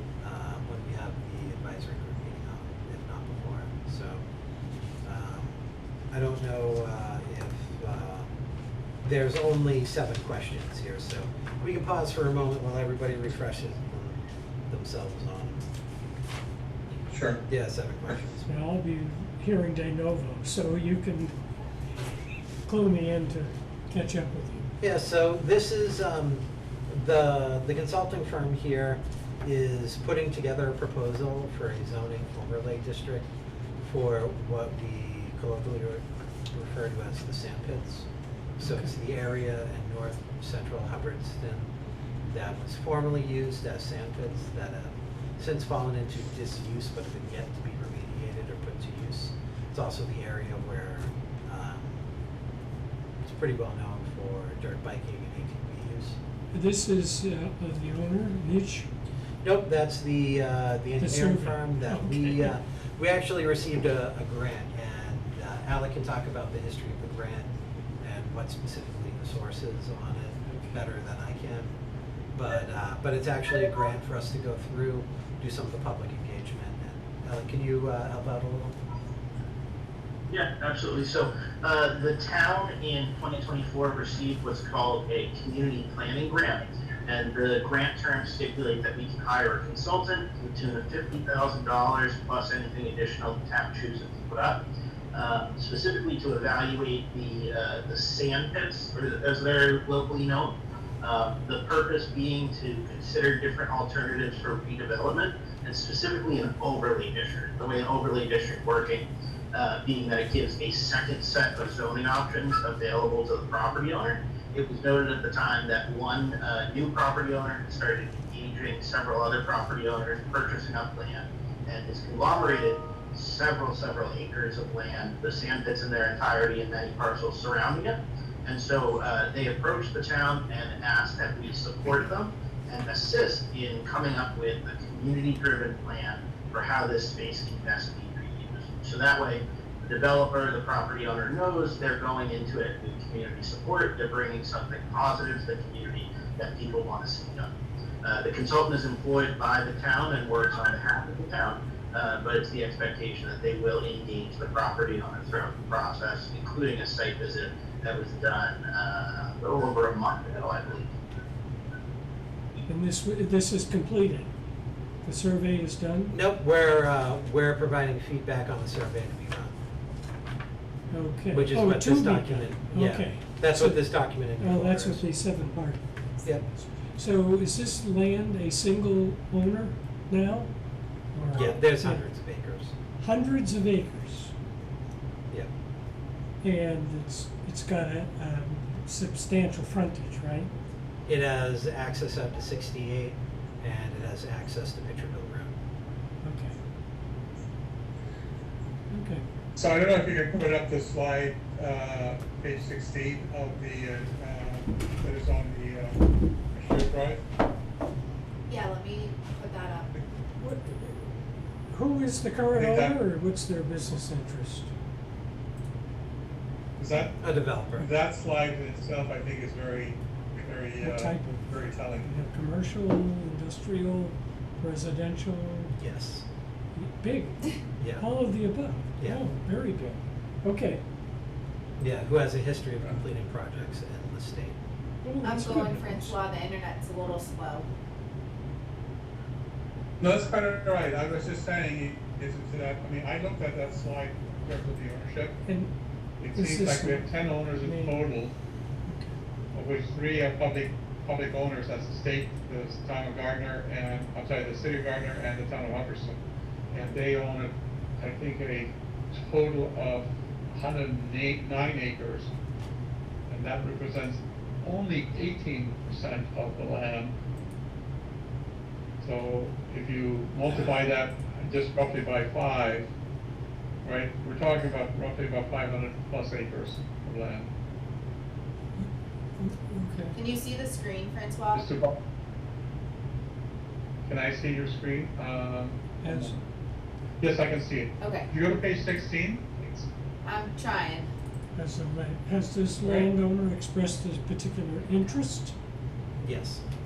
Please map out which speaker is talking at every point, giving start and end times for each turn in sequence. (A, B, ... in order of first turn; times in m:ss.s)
0:00.2-0:04.2 A
0:05.0-0:05.6 A
0:06.1-0:08.3 A
0:09.0-0:15.7 A
0:17.1-0:17.4 B
0:17.4-0:18.4 A
0:18.4-0:21.3 C
0:22.7-0:24.7 C
0:24.8-0:33.3 A
0:33.8-0:41.7 A
0:42.3-0:52.0 A
0:53.2-0:56.2 A
0:56.5-0:58.9 C
0:59.4-1:11.8 A
1:01.0-1:02.5 C
1:12.3-1:18.8 A
1:20.3-1:34.6 D
1:35.1-2:27.5 D
2:28.0-2:40.9 D
2:42.6-2:44.3 C
2:45.0-2:46.1 C
2:46.1-2:49.5 A
2:50.9-2:55.8 C
2:51.3-2:55.0 A
2:56.2-2:56.5 A
2:57.0-3:00.5 C
3:01.1-3:02.0 C
3:01.3-3:02.7 A
3:03.0-3:04.3 C
3:06.4-3:10.5 C
3:11.1-3:15.5 A
3:16.2-3:16.6 C
3:18.9-3:19.2 C
3:19.6-3:26.0 B
3:26.5-3:27.2 B
3:28.5-3:30.0 E
3:30.4-3:31.1 C
3:31.7-3:34.7 C
3:32.5-3:33.0 B
3:36.8-3:42.1 B
3:37.2-3:37.9 A
3:40.8-3:41.4 C
3:42.0-3:45.7 C
3:45.8-3:46.2 A
3:46.8-3:47.4 C
3:47.8-3:48.1 A
3:48.0-3:50.8 C
3:49.0-3:49.2 A
3:51.8-3:54.6 A
3:55.1-3:57.7 E
3:55.1-3:56.2 C
4:00.0-4:05.4 B
4:06.2-4:08.3 B
4:06.3-4:07.1 C
4:07.6-4:08.0 C
4:08.9-4:09.1 C
4:09.5-4:16.2 B
4:16.7-4:22.3 B
4:23.3-4:27.1 B
4:29.0-4:32.9 B
4:33.8-4:37.5 B
4:39.4-4:40.1 C
4:40.1-4:41.6 E
4:41.5-4:42.0 B
4:44.0-4:46.3 B
4:46.0-4:46.4 C
4:47.2-4:49.9 B
4:48.0-4:48.3 E
4:50.2-4:51.1 E
4:51.6-4:55.5 C
4:52.8-4:53.1 B
4:56.2-4:56.6 A